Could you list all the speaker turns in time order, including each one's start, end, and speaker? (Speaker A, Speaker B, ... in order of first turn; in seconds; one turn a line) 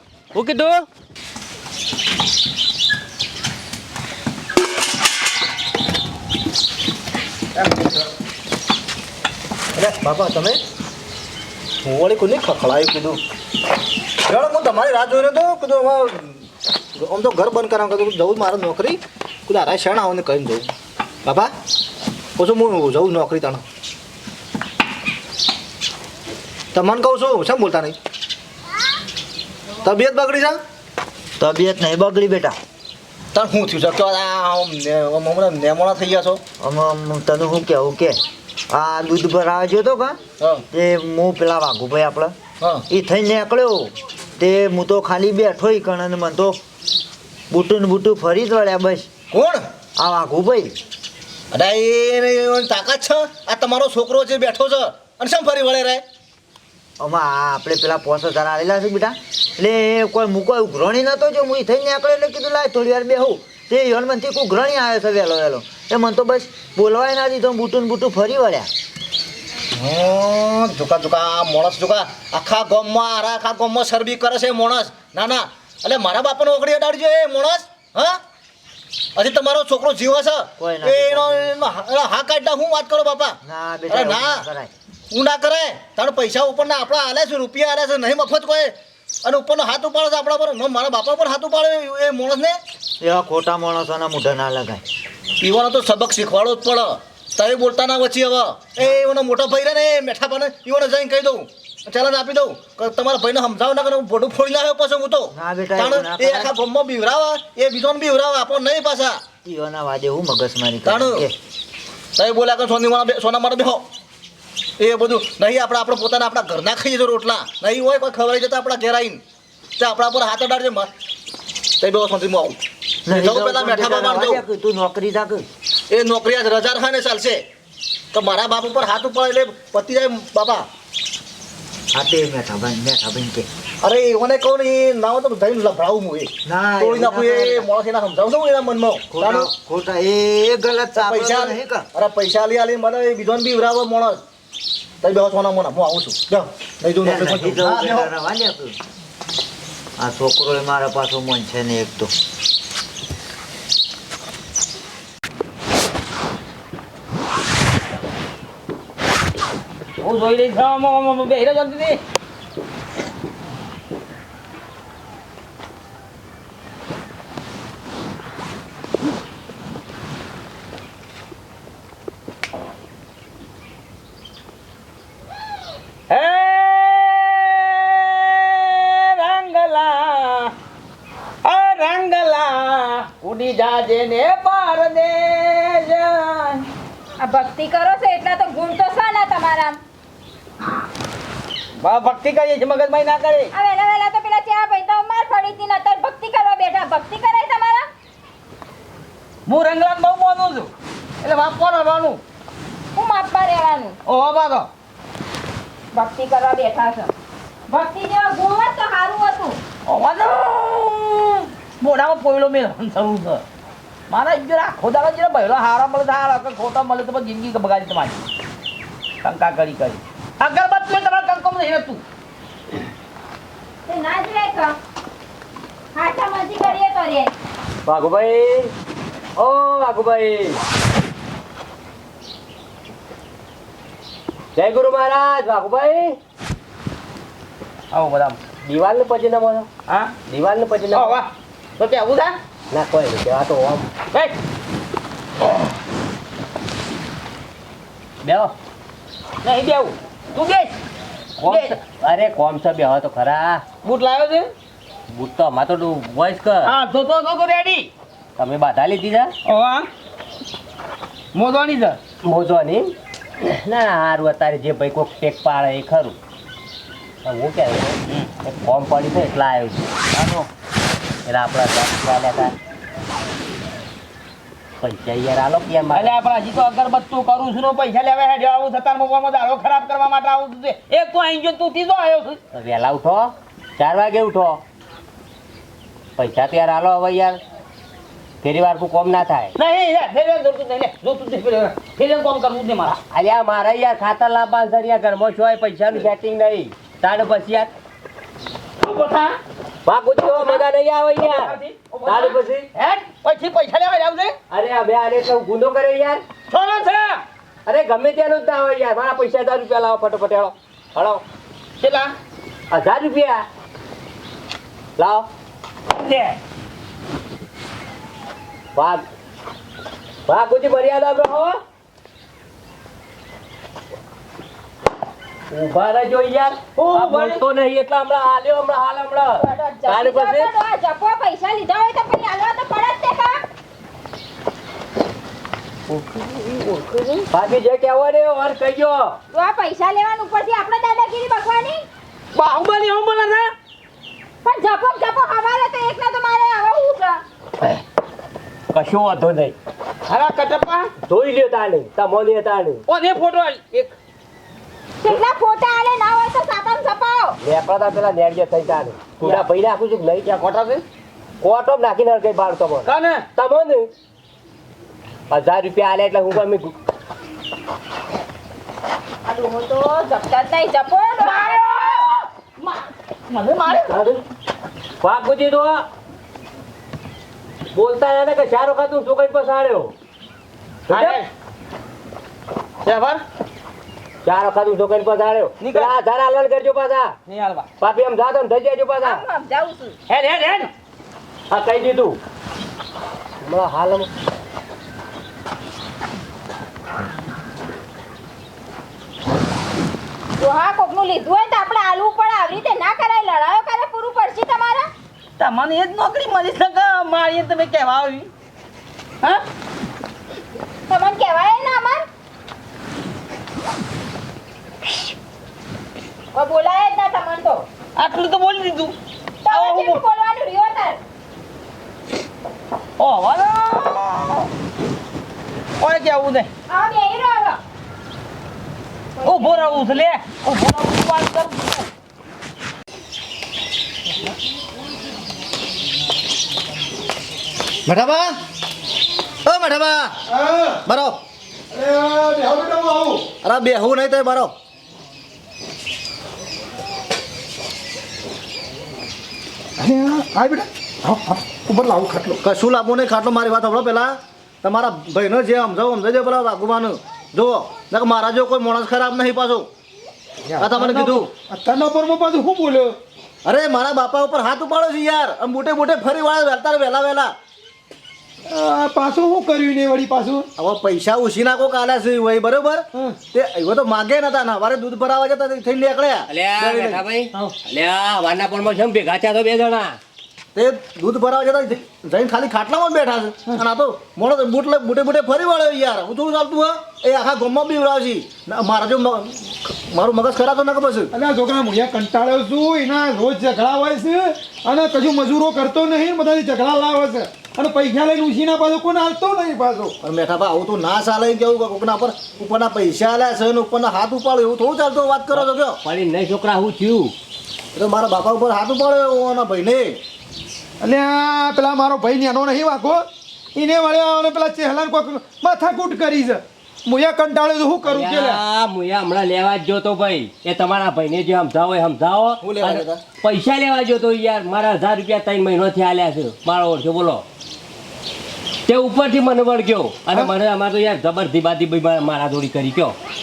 Speaker A: 0.3-0.8
Speaker B: 7.6-8.0
Speaker B: 9.7-10.6
Speaker B: 11.8-13.2
Speaker B: 14.2-16.4
Speaker B: 17.0-20.7
Speaker B: 21.2-21.5
Speaker B: 22.4-23.6
Speaker B: 26.7-28.0
Speaker B: 29.8-30.6
Speaker C: 31.4-32.5
Speaker B: 33.3-36.4
Speaker C: 36.6-38.2
Speaker C: 38.7-42.3
Speaker C: 42.9-46.6
Speaker C: 47.5-49.1
Speaker B: 49.3-49.6
Speaker C: 50.0-50.7
Speaker B: 51.5-56.0
Speaker C: 57.0-68.7
Speaker B: 69.8-78.2
Speaker B: 79.2-83.4
Speaker C: 80.6-81.7
Speaker C: 83.4-84.7
Speaker B: 83.9-84.4
Speaker B: 85.1-92.6
Speaker C: 93.0-94.8
Speaker B: 95.4-109.2
Speaker C: 105.3-106.5
Speaker C: 109.4-111.3
Speaker B: 110.8-111.3
Speaker B: 112.2-113.8
Speaker B: 114.8-119.2
Speaker B: 119.8-120.9
Speaker B: 121.8-124.4
Speaker C: 123.0-125.5
Speaker B: 125.9-127.4
Speaker B: 128.1-130.7
Speaker C: 131.9-133.4
Speaker B: 133.8-139.5
Speaker C: 136.4-137.7
Speaker C: 139.1-141.8
Speaker B: 140.9-144.2
Speaker B: 145.0-148.1
Speaker C: 147.0-148.8
Speaker C: 150.0-152.1
Speaker D: 160.0-162.0
Speaker D: 176.1-180.5
Speaker D: 181.4-186.7
Speaker E: 187.2-189.8
Speaker D: 191.8-193.5
Speaker E: 193.5-197.8
Speaker D: 199.5-200.7
Speaker D: 201.2-202.2
Speaker E: 202.9-204.0
Speaker D: 204.1-204.7
Speaker E: 205.9-207.1
Speaker E: 207.7-209.6
Speaker D: 209.8-213.4
Speaker D: 214.1-218.2
Speaker D: 219.2-222.0
Speaker E: 223.8-224.8
Speaker E: 225.9-227.3
Speaker A: 227.8-228.7
Speaker A: 229.3-230.6
Speaker A: 234.5-236.2
Speaker D: 237.9-238.4
Speaker A: 238.6-239.7
Speaker D: 239.9-240.2
Speaker A: 240.3-241.2
Speaker D: 240.9-242.3
Speaker A: 242.7-243.9
Speaker A: 248.2-248.5
Speaker D: 249.4-250.8
Speaker A: 251.4-253.6
Speaker D: 251.4-251.7
Speaker D: 253.8-254.5
Speaker A: 255.1-256.8
Speaker D: 256.7-257.9
Speaker A: 258.4-259.3
Speaker D: 259.5-259.9
Speaker D: 261.3-262.0
Speaker A: 262.2-266.1
Speaker A: 267.2-269.8
Speaker D: 270.1-270.5
Speaker A: 271.2-272.5
Speaker A: 274.8-276.2
Speaker D: 275.9-282.4
Speaker A: 282.5-284.6
Speaker A: 286.2-287.4
Speaker A: 288.4-289.5
Speaker D: 289.6-293.0
Speaker A: 293.1-297.7
Speaker D: 298.8-299.4
Speaker A: 299.8-302.6
Speaker D: 300.2-300.6
Speaker D: 301.2-304.4
Speaker A: 304.5-306.2
Speaker D: 306.5-307.2
Speaker A: 307.6-311.2
Speaker D: 311.8-312.1
Speaker A: 312.7-313.4
Speaker A: 315.0-315.3
Speaker D: 315.9-316.4
Speaker A: 318.7-319.0
Speaker A: 320.3-321.6
Speaker A: 325.5-330.5
Speaker D: 326.8-327.4
Speaker E: 329.4-333.4
Speaker D: 336.0-337.2
Speaker A: 337.3-339.1
Speaker E: 339.3-341.8
Speaker D: 342.3-343.5
Speaker E: 344.4-347.2
Speaker A: 348.7-349.5
Speaker D: 350.1-350.9
Speaker A: 351.1-352.8
Speaker D: 352.9-353.9
Speaker E: 355.0-357.4
Speaker A: 357.4-360.3
Speaker D: 360.3-360.8
Speaker A: 361.4-363.9
Speaker D: 362.8-363.2
Speaker A: 365.3-366.7
Speaker E: 369.2-371.6
Speaker D: 371.2-374.0
Speaker A: 373.7-374.2
Speaker A: 375.0-375.8
Speaker A: 377.7-379.9
Speaker D: 380.9-381.3
Speaker A: 380.9-381.2
Speaker D: 382.9-383.2
Speaker A: 384.2-387.1
Speaker D: 385.6-385.9
Speaker D: 387.2-387.7
Speaker A: 387.8-389.2
Speaker E: 389.0-389.9
Speaker D: 390.1-390.7
Speaker A: 391.5-392.2
Speaker A: 393.4-394.1
Speaker E: 400.4-404.9
Speaker D: 405.4-408.3
Speaker E: 410.9-412.0
Speaker E: 416.3-417.6
Speaker D: 417.9-418.9
Speaker E: 419.4-421.0
Speaker D: 419.5-420.0
Speaker D: 423.0-424.5
Speaker D: 425.8-426.5
Speaker E: 426.7-427.6
Speaker E: 429.2-429.7
Speaker D: 429.2-431.9
Speaker B: 437.9-438.3
Speaker B: 439.4-440.1
Speaker F: 440.3-440.8
Speaker B: 440.8-441.2
Speaker F: 441.7-443.3
Speaker B: 443.4-444.5
Speaker F: 449.8-452.4
Speaker B: 452.4-459.7
Speaker F: 460.5-463.0
Speaker B: 460.6-461.3
Speaker B: 463.4-467.3
Speaker F: 468.5-470.5
Speaker B: 470.6-477.0
Speaker A: 476.3-480.0
Speaker B: 480.5-491.1
Speaker F: 491.1-499.9
Speaker B: 500.0-505.8
Speaker A: 505.3-507.1
Speaker B: 507.7-510.0
Speaker F: 510.8-518.4
Speaker A: 517.8-527.2
Speaker B: 522.4-523.0
Speaker A: 528.6-533.0